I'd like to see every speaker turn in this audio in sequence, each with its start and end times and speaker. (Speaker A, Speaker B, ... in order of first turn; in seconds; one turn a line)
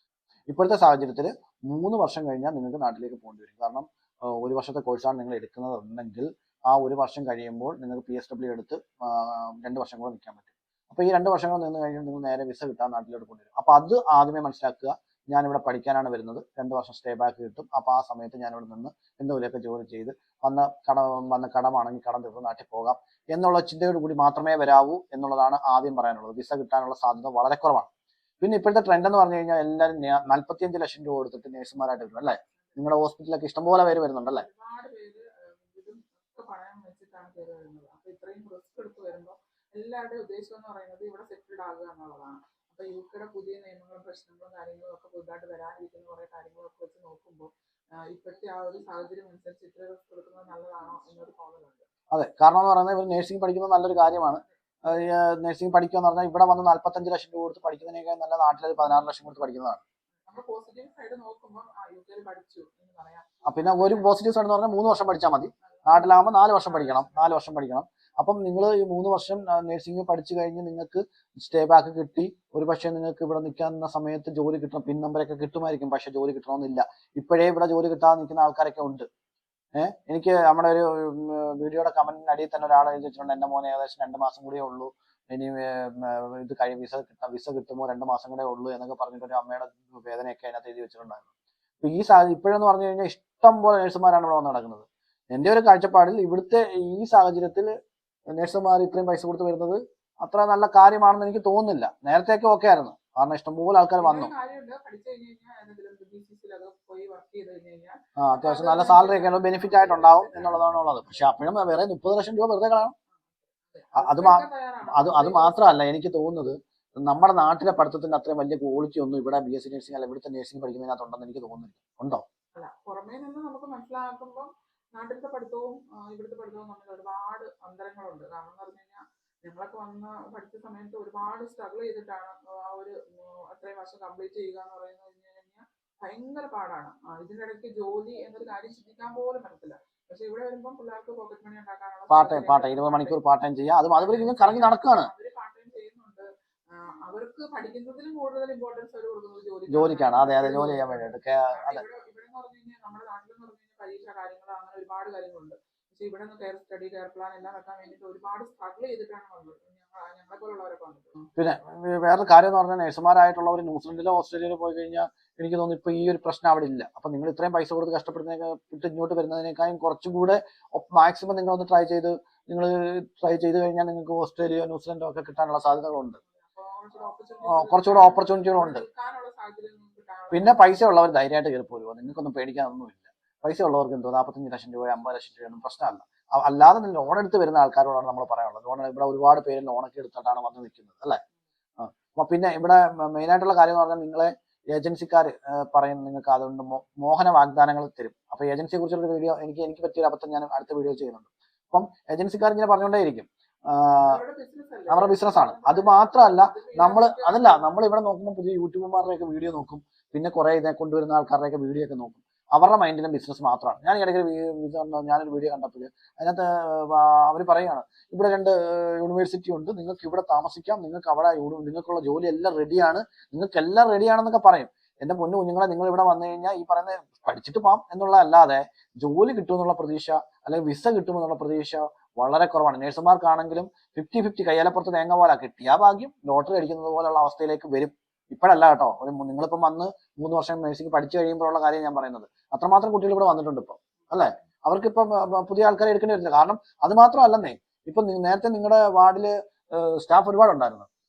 Speaker A: 0.5-27.9
Speaker A: 28.4-34.5
Speaker B: 34.3-51.9
Speaker A: 52.1-59.8
Speaker B: 60.3-64.1
Speaker A: 63.5-79.1
Speaker B: 65.7-67.3
Speaker A: 79.8-91.3
Speaker A: 91.8-97.7
Speaker A: 98.3-104.3
Speaker B: 104.0-110.7
Speaker A: 108.2-112.9
Speaker B: 113.5-115.7
Speaker A: 114.0-122.2
Speaker B: 122.6-143.2
Speaker A: 142.1-145.1
Speaker B: 143.9-161.3
Speaker A: 149.7-151.8
Speaker A: 161.4-176.2
Speaker B: 176.2-180.6
Speaker A: 177.5-178.8
Speaker A: 180.3-191.2
Speaker A: 191.8-204.2
Speaker B: 204.0-207.8
Speaker A: 204.9-250.9